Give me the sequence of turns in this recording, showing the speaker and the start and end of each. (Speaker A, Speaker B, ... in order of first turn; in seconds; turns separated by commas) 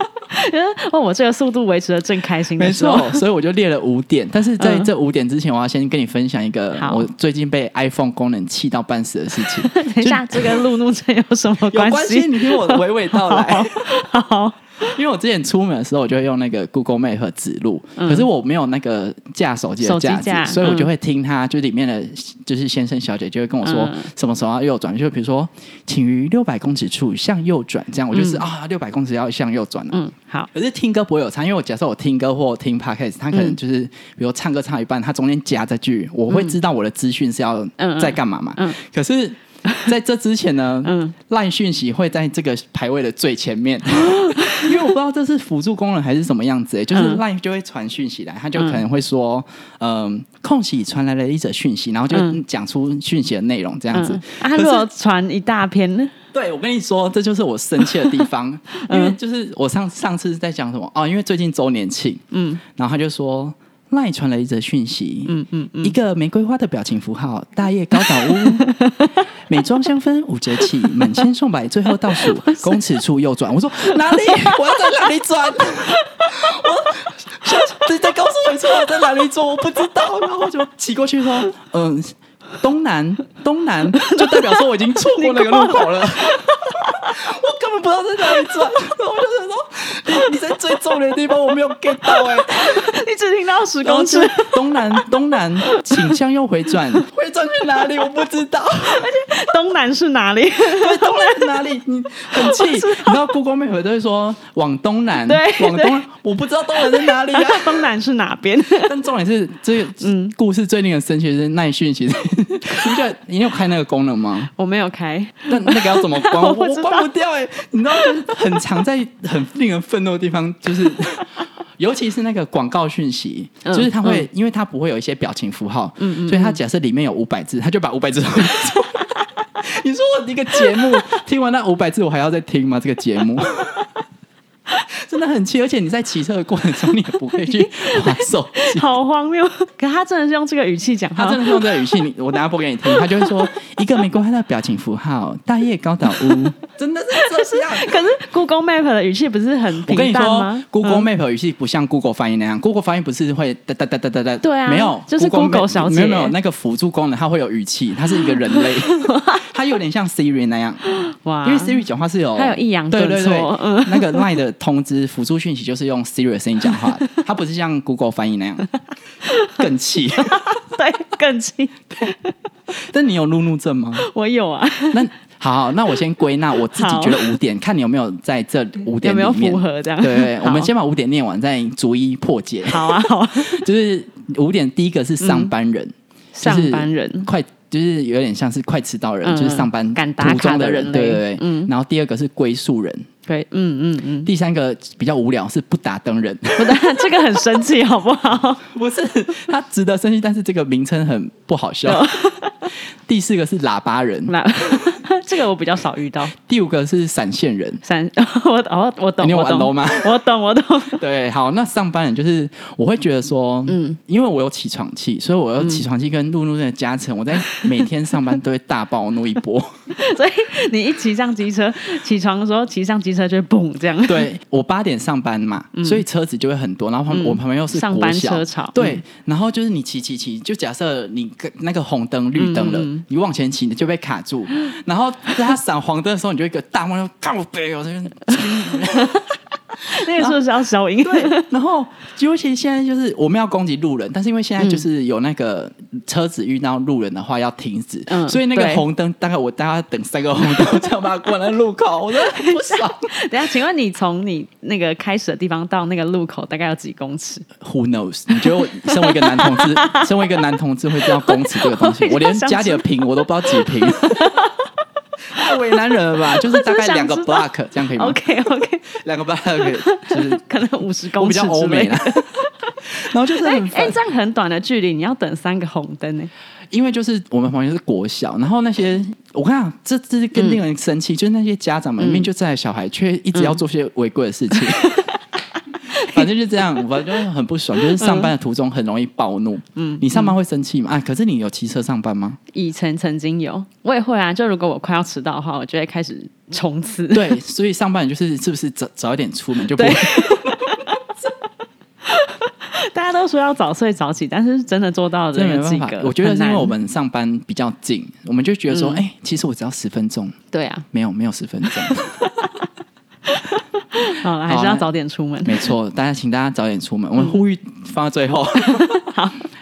Speaker A: 0.3-3.2, Speaker B: 2.6-10.7, Speaker A: 4.6-4.9, Speaker A: 6.8-7.1, Speaker A: 9.4-14.9, Speaker B: 11.7-14.1, Speaker B: 14.8-30.0, Speaker A: 18.0-18.3, Speaker A: 19.8-20.9, Speaker A: 23.6-24.1, Speaker A: 28.1-28.4, Speaker A: 29.9-30.5, Speaker B: 30.5-54.9, Speaker A: 36.3-36.6, Speaker A: 37.8-38.8, Speaker A: 40.8-41.1, Speaker A: 44.0-44.8, Speaker A: 46.9-47.2, Speaker A: 48.5-48.8, Speaker A: 52.1-52.4, Speaker A: 53.9-56.1, Speaker B: 56.3-68.7, Speaker A: 58.8-59.2, Speaker A: 62.3-62.6, Speaker A: 65.3-66.0, Speaker A: 68.0-69.2, Speaker B: 69.5-93.0, Speaker A: 72.2-72.8, Speaker A: 74.2-74.6, Speaker A: 84.0-86.3, Speaker A: 86.8-87.2, Speaker A: 92.1-95.0, Speaker B: 93.8-99.1, Speaker A: 95.7-96.1, Speaker A: 98.9-101.5, Speaker B: 100.6-107.9, Speaker A: 102.2-103.2, Speaker A: 105.2-106.0, Speaker A: 106.8-108.9, Speaker B: 108.8-114.5, Speaker A: 110.0-110.3, Speaker A: 114.5-117.1, Speaker B: 115.5-133.9, Speaker A: 123.7-124.3, Speaker A: 126.0-126.6, Speaker B: 134.8-138.9, Speaker A: 137.6-141.8, Speaker B: 141.2-147.9, Speaker A: 142.9-143.3, Speaker A: 146.1-146.5, Speaker A: 147.1-151.1, Speaker B: 149.8-160.8, Speaker A: 154.4-156.3, Speaker A: 158.2-159.4, Speaker A: 160.9-161.8, Speaker B: 161.4-168.7, Speaker A: 162.4-164.3, Speaker A: 169.2-169.6, Speaker B: 169.5-170.6, Speaker A: 170.2-172.3, Speaker B: 172.7-174.1, Speaker A: 174.0-175.1, Speaker B: 174.9-193.1, Speaker A: 176.7-177.4, Speaker A: 179.0-180.7, Speaker A: 182.7-183.6, Speaker A: 185.2-185.5, Speaker A: 186.3-187.3, Speaker A: 189.2-191.7, Speaker A: 193.3-194.3, Speaker B: 194.2-197.1, Speaker A: 196.6-198.7, Speaker B: 198.7-202.1, Speaker A: 201.9-202.7, Speaker B: 203.1-205.0, Speaker A: 204.3-206.3, Speaker B: 206.3-207.8, Speaker A: 207.8-211.0, Speaker B: 209.2-210.2, Speaker B: 210.9-219.8, Speaker A: 213.7-214.0, Speaker A: 219.9-224.3, Speaker B: 224.1-239.3, Speaker A: 225.8-226.0, Speaker A: 227.1-229.0, Speaker A: 232.4-233.0, Speaker A: 238.9-241.5, Speaker B: 239.9-240.4, Speaker B: 241.0-253.1, Speaker A: 244.6-244.8, Speaker A: 248.1-248.9, Speaker A: 252.2-257.5, Speaker B: 257.6-264.5, Speaker A: 258.4-260.4, Speaker A: 261.1-262.8, Speaker A: 263.5-264.6, Speaker B: 265.3-270.4, Speaker A: 266.3-269.0, Speaker A: 269.6-272.7, Speaker B: 271.2-274.0, Speaker A: 273.4-276.3, Speaker B: 276.7-285.1, Speaker A: 282.0-282.3, Speaker A: 284.8-285.1, Speaker A: 285.9-286.2, Speaker B: 285.9-292.4, Speaker A: 287.8-288.3, Speaker A: 289.8-290.3, Speaker A: 292.5-297.4, Speaker B: 297.1-300.7, Speaker A: 299.7-300.7, Speaker A: 302.1-306.7, Speaker B: 305.3-310.4, Speaker A: 308.7-309.0, Speaker A: 310.5-310.9, Speaker B: 310.9-312.4, Speaker A: 313.3-315.7, Speaker B: 314.5-314.9, Speaker B: 315.4-319.1, Speaker A: 318.6-319.5